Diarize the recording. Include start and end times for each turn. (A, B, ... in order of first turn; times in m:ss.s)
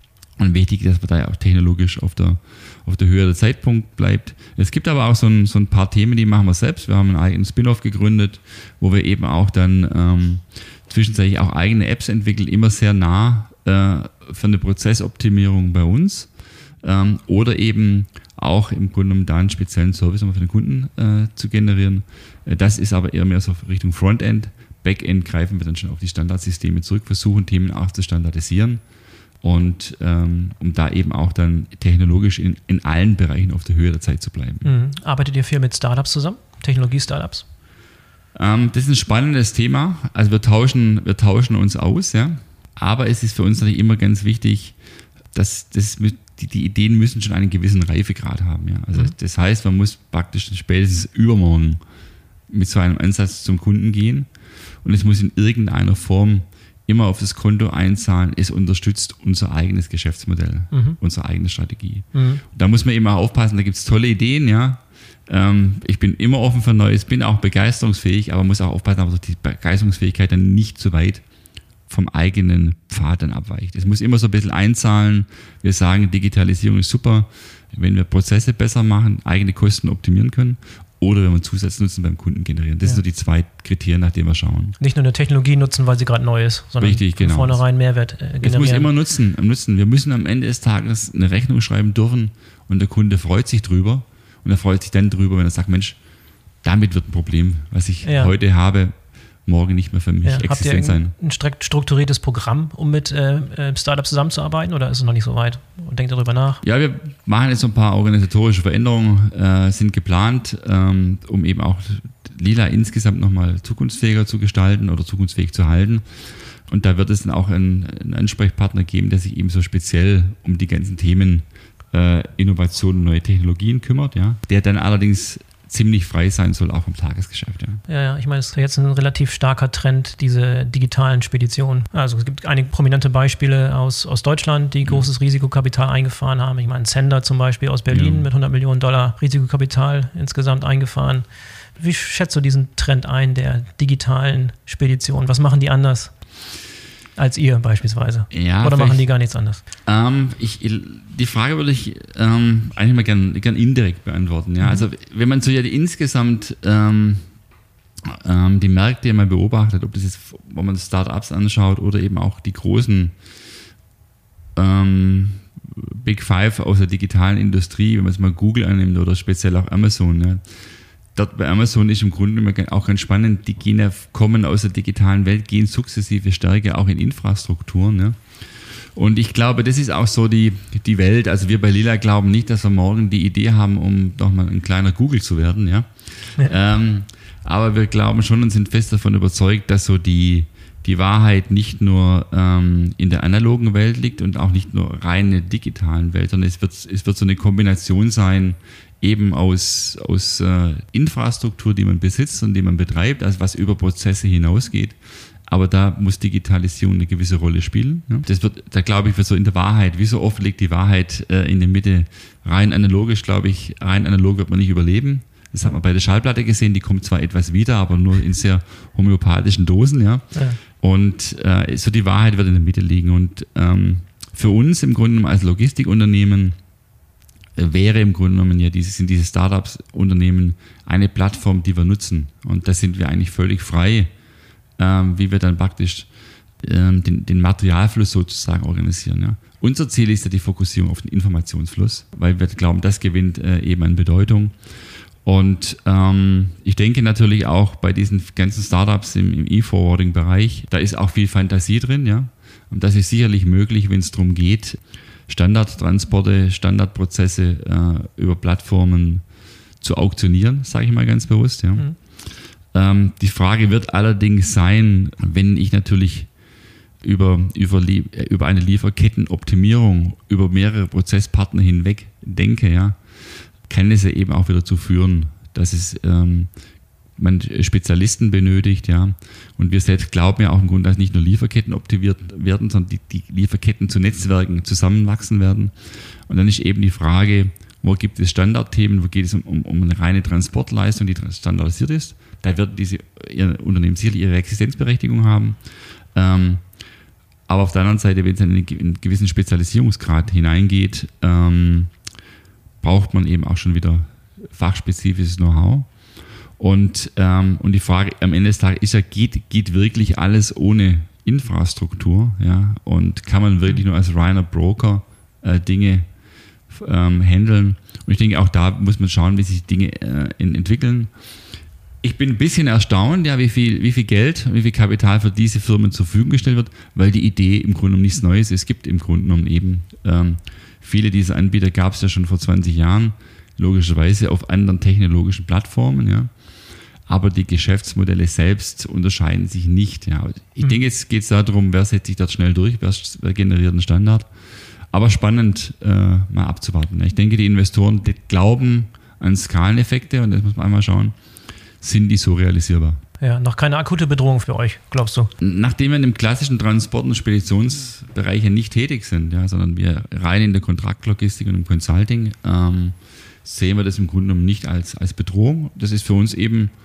0:00.4-0:16.3 A
0:16.8-0:28.8 A
0:29.4-0:34.7 A
0:34.6-0:37.4 B
0:38.4-0:44.8 A
0:45.3-0:51.8 A
0:52.5-0:54.3 A
0:54.8-1:11.2 A
1:00.7-1:01.0 B
1:02.1-1:02.4 B
1:11.9-1:24.8 A
1:24.8-1:28.9 B
1:26.8-1:27.6 A
1:28.4-1:36.0 A
1:36.6-1:38.9 A
1:38.0-1:38.3 B
1:39.5-1:41.1 A
1:40.2-1:46.6 B
1:46.6-1:56.0 A
1:56.7-2:07.8 A
2:07.9-2:21.2 B
2:17.9-2:18.3 A
2:21.8-2:26.1 B
2:27.2-2:29.6 B
2:28.3-2:29.1 A
2:29.9-2:37.3 A
2:38.1-2:43.1 A
2:44.6-2:50.4 A
2:51.2-2:58.2 A
2:58.8-3:40.2 A
3:40.3-3:40.6 B
3:40.8-3:46.6 A
3:47.6-3:54.1 A
3:54.8-3:56.1 A
3:56.6-4:04.5 A
4:05.2-4:19.2 A
4:19.8-4:21.9 A
4:22.7-4:26.3 A
4:27.0-4:33.0 A
4:33.7-4:36.5 A
4:37.2-4:45.7 A
4:46.3-4:55.6 A
4:56.2-4:56.6 A
4:57.5-5:01.9 A
5:02.8-5:05.9 A
5:06.6-5:16.1 A
5:16.7-5:21.1 A
5:22.0-5:36.3 A
5:37.1-5:44.3 A
5:44.9-5:51.2 A
5:51.8-5:53.0 A
5:53.2-5:55.3 B
5:55.4-6:06.7 A